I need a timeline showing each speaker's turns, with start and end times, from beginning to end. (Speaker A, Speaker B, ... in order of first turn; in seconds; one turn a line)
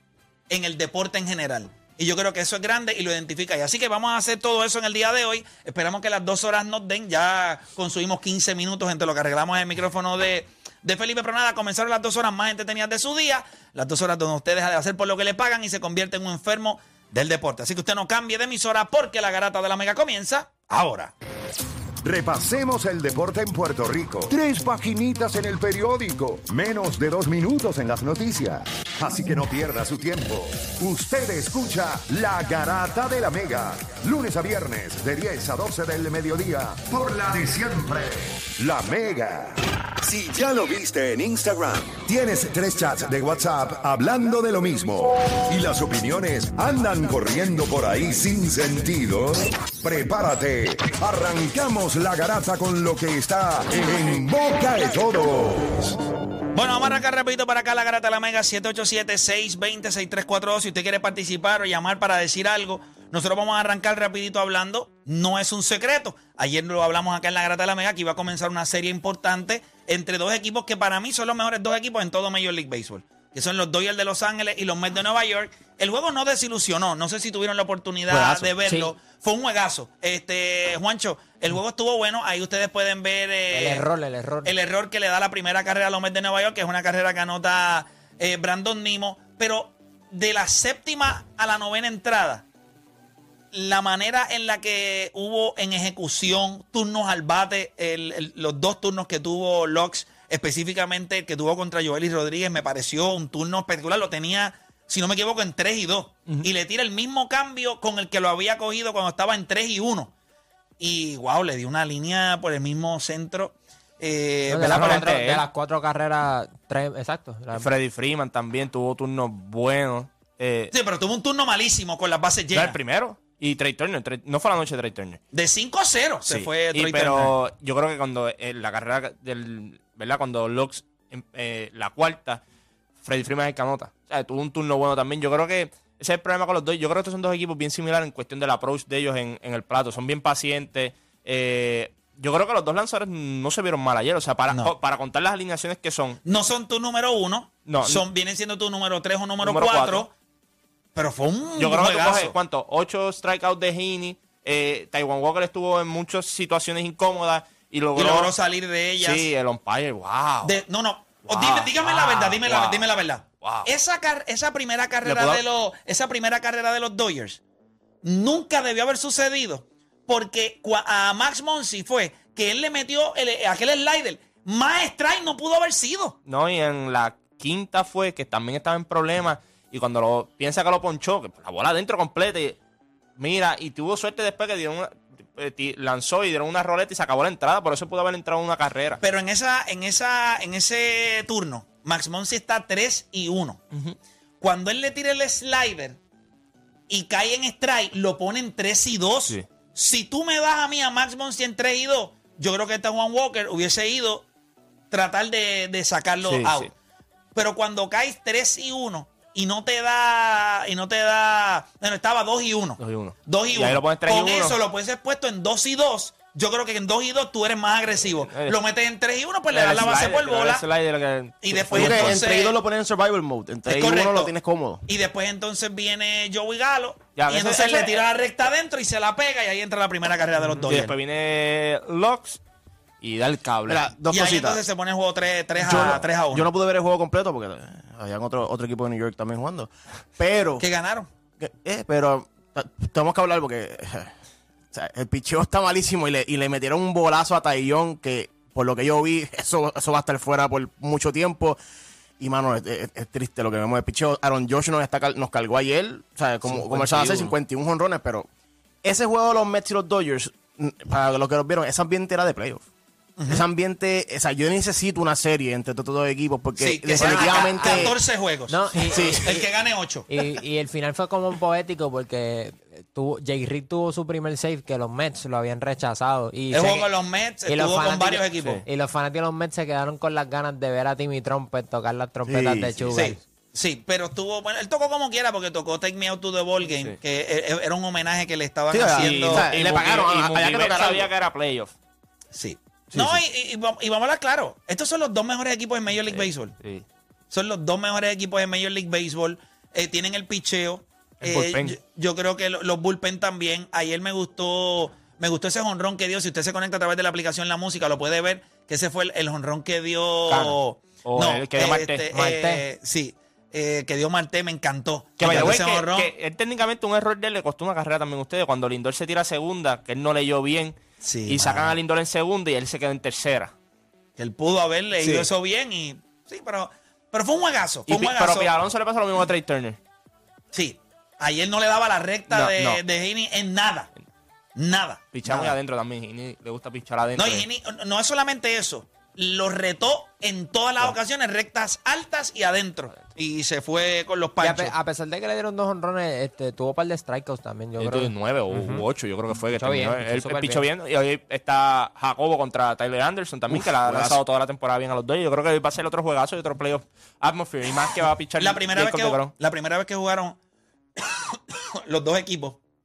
Speaker A: 0.5-21.1
Speaker B: 22.0-56.0
Speaker A: 56.5-83.9
Speaker C: 78.1-78.9
Speaker C: 83.5-84.5
Speaker A: 84.4-92.4
Speaker A: 93.5-110.1
Speaker A: 110.8-115.1
Speaker C: 114.5-117.7
Speaker D: 114.7-115.5
Speaker D: 117.5-120.7
Speaker A: 120.7-122.8
Speaker D: 122.5-125.2
Speaker A: 125.3-127.4
Speaker D: 126.2-132.4
Speaker D: 133.0-146.2
Speaker A: 146.2-150.1
Speaker D: 147.6-148.0
Speaker D: 149.4-150.1
Speaker A: 150.9-152.3
Speaker D: 151.6-158.3
Speaker A: 157.9-159.3
Speaker D: 159.0-160.6
Speaker A: 160.4-167.4
Speaker D: 161.3-163.7
Speaker D: 165.0-165.4
Speaker A: 168.0-176.2
Speaker D: 176.2-182.6
Speaker D: 183.2-189.0
Speaker A: 189.0-193.6
Speaker A: 194.4-196.0
Speaker A: 196.9-204.2
Speaker A: 204.9-206.7
Speaker D: 206.2-206.7
Speaker A: 207.3-220.6
Speaker D: 212.8-214.6
Speaker D: 217.9-218.6
Speaker D: 219.5-222.3
Speaker A: 221.4-222.6
Speaker E: 221.7-224.8
Speaker A: 223.7-224.3
Speaker A: 224.8-230.9
Speaker D: 227.1-228.0
Speaker D: 230.6-232.4
Speaker D: 233.0-233.8
Speaker E: 233.7-234.6
Speaker A: 234.1-236.5
Speaker E: 235.6-240.7
Speaker A: 240.6-241.1
Speaker E: 241.4-244.1
Speaker E: 244.7-251.6
Speaker E: 252.2-258.3
Speaker D: 256.4-257.3
Speaker E: 258.8-262.6
Speaker A: 263.2-263.4
Speaker E: 263.3-268.0
Speaker A: 266.6-268.6
Speaker C: 266.9-267.9
Speaker C: 268.5-269.5
Speaker E: 268.7-269.2
Speaker A: 269.2-270.0
Speaker C: 270.1-276.9
Speaker A: 276.5-278.6
Speaker C: 277.4-283.2
Speaker D: 278.4-278.6
Speaker E: 282.2-283.1
Speaker A: 282.9-289.5
Speaker D: 286.6-287.0
Speaker E: 288.7-291.1
Speaker D: 288.9-291.7
Speaker A: 292.3-296.6
Speaker E: 292.9-293.2
Speaker D: 296.1-296.8
Speaker A: 297.3-316.1
Speaker D: 301.2-301.8
Speaker D: 310.3-312.0
Speaker C: 312.1-312.6
Speaker D: 315.2-323.5
Speaker A: 321.0-321.8
Speaker A: 324.2-328.5
Speaker D: 325.0-325.3
Speaker D: 327.9-329.8
Speaker A: 330.5-333.9
Speaker D: 332.3-332.8
Speaker A: 334.6-335.6
Speaker D: 335.1-337.5
Speaker A: 337.1-344.7
Speaker C: 344.4-348.8
Speaker D: 347.8-359.3
Speaker C: 349.5-350.7
Speaker E: 353.5-354.2
Speaker A: 358.4-360.4
Speaker A: 361.0-362.6